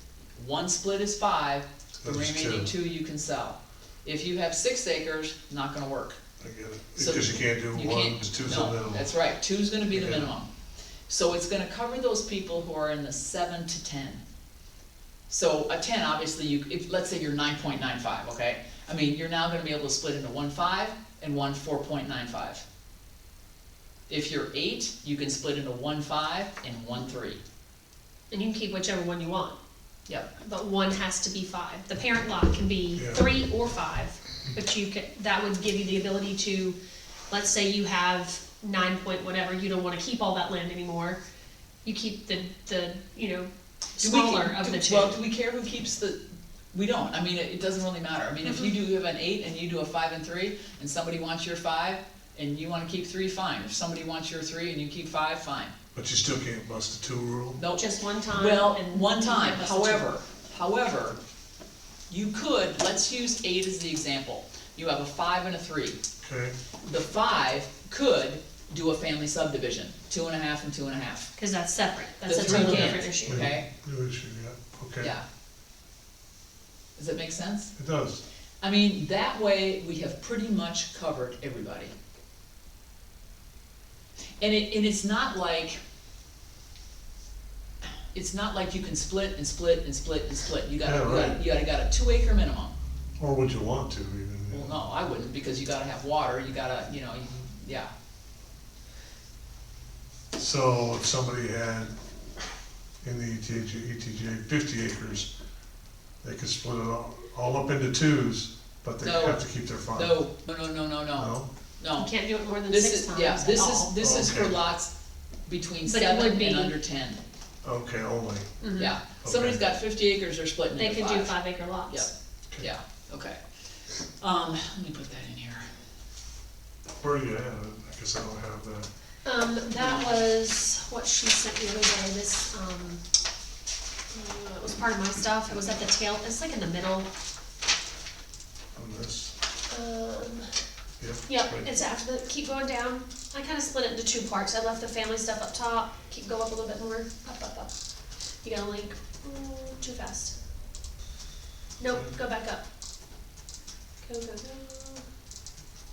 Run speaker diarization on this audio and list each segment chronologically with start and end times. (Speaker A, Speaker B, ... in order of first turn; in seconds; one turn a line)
Speaker A: 0.3-6.2
Speaker B: 2.0-2.7
Speaker B: 6.4-9.1
Speaker A: 7.0-10.5
Speaker B: 9.9-10.3
Speaker A: 11.1-14.2
Speaker A: 15.3-22.6
Speaker A: 24.1-27.4
Speaker C: 28.3-29.6
Speaker C: 30.4-36.8
Speaker B: 33.0-33.3
Speaker C: 37.3-41.2
Speaker C: 41.9-45.2
Speaker A: 44.0-46.2
Speaker A: 46.7-55.7
Speaker B: 56.0-57.6
Speaker A: 57.6-61.2
Speaker C: 57.8-60.2
Speaker A: 62.1-66.0
Speaker B: 66.2-66.5
Speaker A: 66.8-71.3
Speaker C: 71.4-73.5
Speaker A: 72.2-73.7
Speaker B: 72.4-75.1
Speaker A: 77.0-77.7
Speaker B: 77.8-78.2
Speaker A: 78.6-81.9
Speaker A: 84.4-85.8
Speaker A: 88.1-92.7
Speaker B: 90.8-91.4
Speaker B: 93.2-94.8
Speaker A: 94.5-97.9
Speaker B: 100.3-102.0
Speaker B: 103.0-105.3
Speaker B: 106.2-110.2
Speaker A: 109.0-112.1
Speaker B: 111.2-111.5
Speaker C: 111.9-113.9
Speaker A: 112.7-114.9
Speaker B: 114.0-114.6
Speaker A: 115.5-117.2
Speaker C: 115.8-116.8
Speaker B: 117.6-118.6
Speaker C: 118.6-118.9
Speaker A: 118.8-123.4
Speaker B: 119.2-119.6
Speaker C: 120.8-122.1
Speaker A: 124.2-125.7
Speaker B: 126.9-128.9
Speaker C: 129.2-133.0
Speaker A: 129.8-130.1
Speaker C: 134.1-137.1
Speaker B: 138.8-139.3
Speaker C: 139.7-140.5
Speaker B: 141.0-141.7
Speaker C: 141.3-147.7
Speaker C: 148.4-150.4
Speaker C: 151.8-152.6
Speaker C: 154.0-155.0